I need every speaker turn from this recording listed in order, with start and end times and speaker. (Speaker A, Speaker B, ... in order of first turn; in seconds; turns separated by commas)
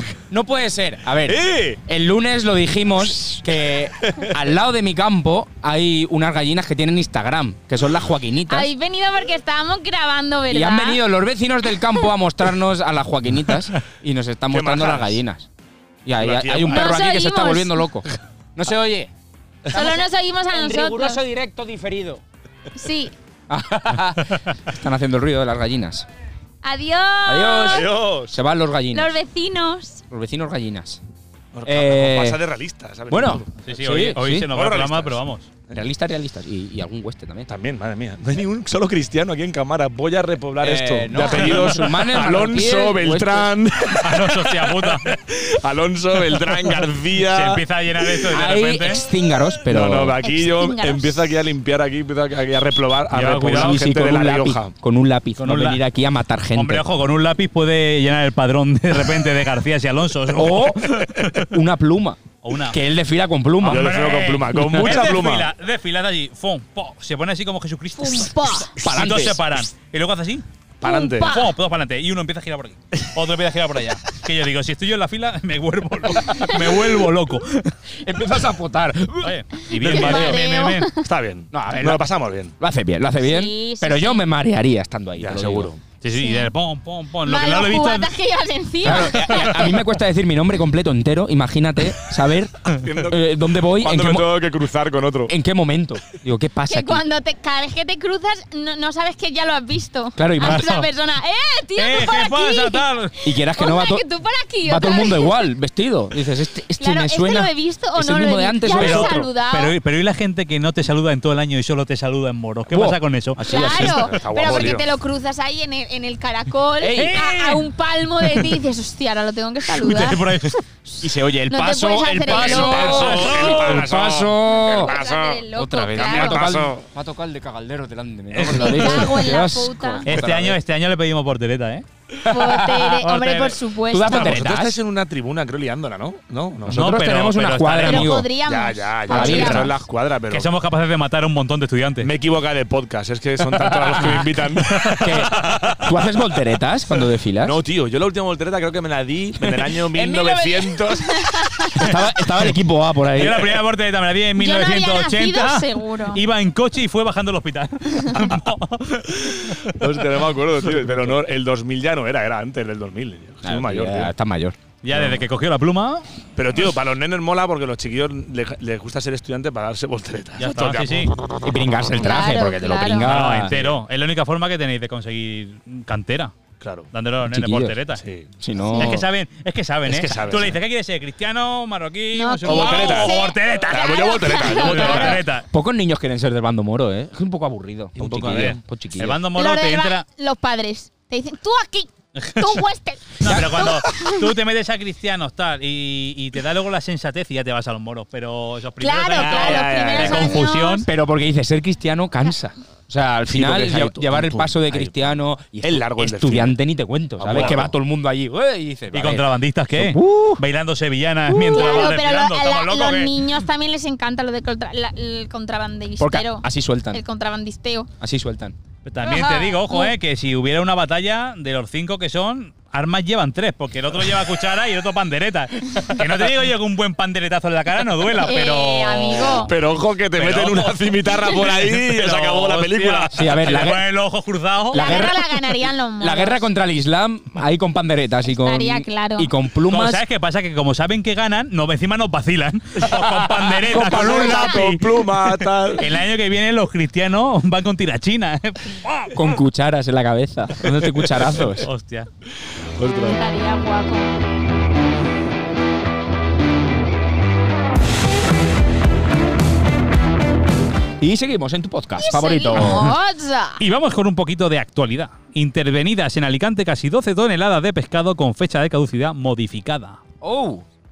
Speaker A: 0.3-8.7, Speaker B: 1.2-1.8, Speaker C: 8.5-11.0, Speaker A: 10.5-15.5, Speaker B: 14.5-15.2, Speaker A: 16.1-19.1, Speaker B: 16.2-17.0, Speaker C: 16.6-17.9, Speaker B: 19.7-20.0, Speaker C: 19.7-21.2, Speaker A: 19.7-22.2, Speaker C: 22.8-23.1, Speaker A: 23.5-26.1, Speaker C: 26.6-27.9, Speaker A: 27.2-29.1, Speaker B: 27.6-28.4, Speaker C: 28.9-30.0, Speaker A: 30.1-31.0, Speaker B: 31.5-35.8, Speaker A: 31.6-32.4, Speaker A: 33.1-34.5, Speaker D: 33.6-35.5, Speaker A: 35.7-37.5, Speaker B: 37.5-48.4, Speaker A: 40.6-43.5, Speaker D: 41.3-41.7, Speaker D: 44.0-45.1, Speaker D: 47.1-49.0, Speaker A: 48.3-50.2, Speaker B: 49.5-54.7, Speaker C: 50.2-51.4, Speaker D: 53.1-53.9, Speaker A: 53.5-56.9, Speaker D: 55.4-55.8, Speaker D: 56.5-61.5, Speaker A: 60.3-64.0, Speaker D: 62.4-62.8, Speaker D: 63.6-70.4, Speaker B: 63.6-65.5, Speaker A: 64.6-65.0, Speaker C: 68.0-68.7, Speaker A: 68.7-69.7, Speaker B: 70.8-71.3, Speaker C: 70.8-71.5, Speaker D: 71.2-77.7, Speaker A: 77.9-80.4, Speaker D: 79.2-80.9, Speaker B: 79.8-80.4, Speaker C: 79.8-81.1, Speaker B: 81.0-82.5, Speaker A: 81.5-85.7, Speaker C: 83.2-84.2, Speaker B: 85.2-85.8, Speaker D: 86.0-88.1, Speaker C: 86.1-86.5, Speaker C: 87.2-89.6, Speaker A: 88.8-94.4, Speaker D: 89.3-89.8, Speaker B: 92.7-95.3, Speaker A: 95.3-97.0, Speaker C: 96.7-105.4, Speaker A: 100.2-100.7, Speaker D: 100.4-100.9, Speaker D: 101.8-103.1, Speaker A: 103.2-104.0, Speaker A: 104.6-109.3, Speaker C: 106.8-109.7, Speaker D: 108.7-114.0, Speaker A: 112.7-114.1, Speaker B: 113.4-114.9, Speaker C: 113.5-123.2, Speaker A: 116.8-117.2, Speaker D: 116.9-117.7, Speaker D: 119.7-120.6, Speaker A: 121.0-125.0, Speaker B: 122.3-126.8, Speaker D: 122.9-123.9, Speaker C: 124.5-126.4, Speaker A: 125.5-130.1, Speaker D: 128.3-129.1, Speaker B: 128.4-128.7, Speaker C: 128.6-130.1, Speaker D: 130.1-131.8, Speaker B: 130.1-130.6, Speaker A: 132.2-133.0, Speaker C: 132.3-134.3, Speaker D: 133.0-133.6, Speaker A: 133.9-134.8, Speaker B: 134.1-136.9, Speaker A: 136.7-138.3, Speaker D: 136.7-138.2, Speaker C: 137.8-139.7, Speaker B: 138.4-140.5, Speaker A: 139.1-139.7, Speaker D: 140.3-142.1, Speaker B: 142.0-145.8, Speaker D: 144.7-145.8, Speaker A: 145.0-147.6, Speaker B: 147.4-151.8, Speaker A: 149.4-150.7, Speaker C: 151.3-151.7, Speaker A: 151.8-153.6, Speaker D: 153.1-160.1, Speaker C: 154.4-156.2, Speaker B: 159.2-164.1, Speaker A: 163.4-164.6, Speaker D: 164.8-166.1, Speaker B: 166.4-172.0, Speaker D: 170.4-171.1, Speaker A: 171.4-173.6, Speaker C: 172.0-173.1, Speaker D: 173.0-176.3, Speaker B: 173.5-173.8, Speaker B: 176.6-176.9, Speaker D: 176.9-178.0, Speaker A: 177.2-177.8, Speaker B: 178.0-178.3, Speaker A: 178.4-179.1, Speaker C: 178.7-179.0, Speaker D: 178.7-185.4, Speaker B: 179.9-180.6, Speaker C: 182.1-185.2, Speaker B: 182.4-185.2, Speaker A: 185.5-189.2, Speaker D: 188.0-190.1, Speaker B: 188.0-188.6, Speaker C: 189.4-194.2, Speaker D: 192.2-192.6, Speaker D: 193.2-200.9, Speaker A: 193.2-193.7, Speaker C: 198.8-200.9, Speaker B: 199.1-200.4, Speaker A: 200.9-210.4, Speaker B: 203.3-206.6, Speaker B: 207.2-207.8, Speaker D: 207.3-207.7, Speaker D: 208.9-213.2, Speaker C: 211.3-217.9, Speaker A: 216.0-217.0, Speaker A: 218.0-218.6, Speaker D: 218.8-229.5, Speaker C: 219.0-219.9, Speaker C: 228.2-229.5, Speaker B: 229.4-233.1, Speaker D: 230.2-235.0, Speaker A: 233.1-233.9, Speaker A: 234.7-235.3, Speaker C: 234.7-236.4, Speaker A: 236.0-240.0, Speaker C: 238.3-239.3, Speaker D: 239.7-249.4, Speaker B: 243.6-245.9, Speaker A: 243.7-244.2, Speaker C: 244.1-244.4, Speaker A: 249.1-251.7, Speaker D: 250.6-252.1, Speaker B: 252.8-253.2, Speaker C: 252.9-254.1, Speaker A: 261.0-262.9, Speaker C: 262.0-263.6, Speaker D: 262.6-262.9, Speaker D: 263.6-270.0, Speaker A: 270.2-270.6